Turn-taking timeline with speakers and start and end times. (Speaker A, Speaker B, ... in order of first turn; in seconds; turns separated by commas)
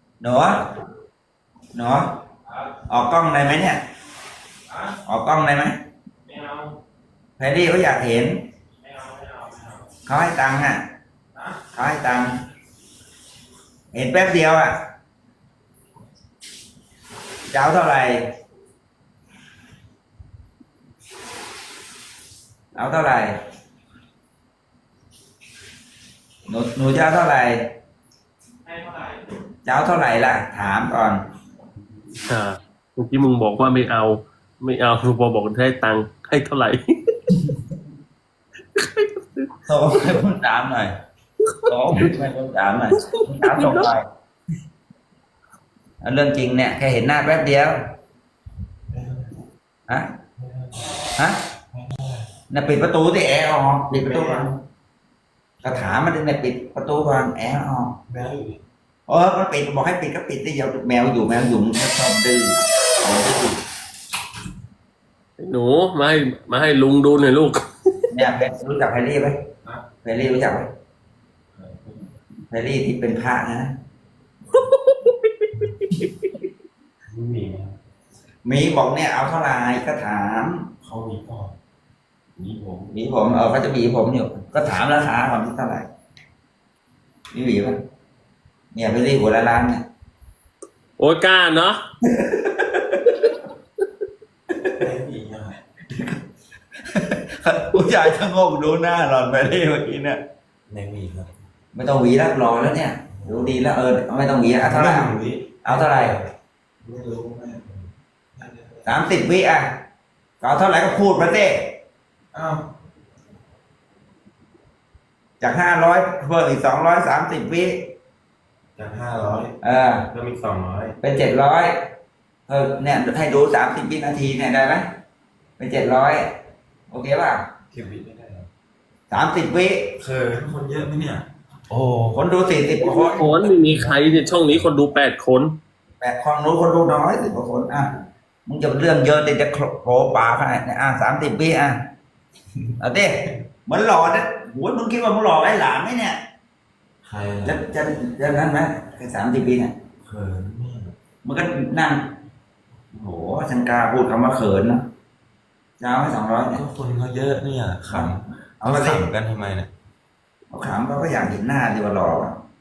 Speaker A: 0.2-0.7, Speaker A: 1.7-2.1, Speaker A: 2.8-3.8, Speaker A: 5.0-5.8, Speaker A: 7.4-8.4, Speaker A: 10.1-10.8, Speaker A: 11.7-12.4, Speaker A: 13.9-14.8, Speaker A: 17.5-18.2, Speaker A: 22.8-23.4, Speaker A: 26.5-27.7, Speaker A: 29.6-31.2, Speaker B: 32.3-36.9, Speaker A: 37.4-37.7, Speaker B: 38.8-39.5, Speaker A: 39.7-40.9, Speaker B: 41.5-42.1, Speaker A: 41.7-44.1, Speaker B: 43.0-43.9, Speaker A: 46.0-47.8, Speaker C: 48.9-49.4, Speaker A: 49.9-50.2, Speaker C: 50.4-51.0, Speaker C: 51.7-52.3, Speaker A: 52.5-54.6, Speaker C: 53.9-54.5, Speaker A: 55.6-58.0, Speaker C: 58.1-58.6, Speaker A: 59.1-63.6, Speaker B: 65.4-67.6, Speaker A: 68.1-69.4, Speaker A: 70.0-70.7, Speaker C: 71.5-72.1, Speaker A: 72.5-73.7, Speaker B: 74.5-76.2, Speaker C: 77.1-77.8, Speaker A: 78.5-80.7, Speaker C: 80.8-81.6, Speaker C: 82.3-82.9, Speaker A: 82.9-85.9, Speaker A: 87.3-87.8, Speaker A: 88.7-89.8, Speaker B: 91.0-91.8, Speaker A: 92.1-93.3, Speaker C: 94.8-95.6, Speaker A: 95.9-96.2, Speaker A: 96.9-100.2, Speaker C: 100.7-101.3, Speaker A: 101.7-106.2, Speaker C: 103.2-103.6, Speaker C: 104.6-106.3, Speaker C: 106.8-108.9, Speaker A: 108.9-109.8, Speaker A: 110.4-111.8, Speaker C: 112.3-112.7, Speaker A: 115.4-117.9, Speaker C: 118.8-119.6, Speaker A: 119.6-120.1, Speaker C: 120.1-121.0, Speaker A: 121.0-121.7, Speaker A: 122.5-124.8, Speaker A: 125.6-126.2, Speaker A: 126.9-127.4, Speaker C: 127.7-128.5, Speaker A: 129.1-130.0, Speaker C: 130.0-132.2, Speaker A: 132.1-133.5, Speaker B: 132.8-135.6, Speaker C: 133.6-134.6, Speaker A: 136.0-137.9, Speaker A: 138.5-141.8, Speaker A: 142.8-146.2, Speaker C: 147.0-147.6, Speaker A: 147.4-149.7, Speaker C: 150.0-151.0, Speaker A: 151.2-152.0, Speaker A: 152.9-154.9, Speaker A: 155.8-156.6, Speaker C: 156.5-159.7, Speaker A: 157.9-159.1, Speaker A: 160.5-162.4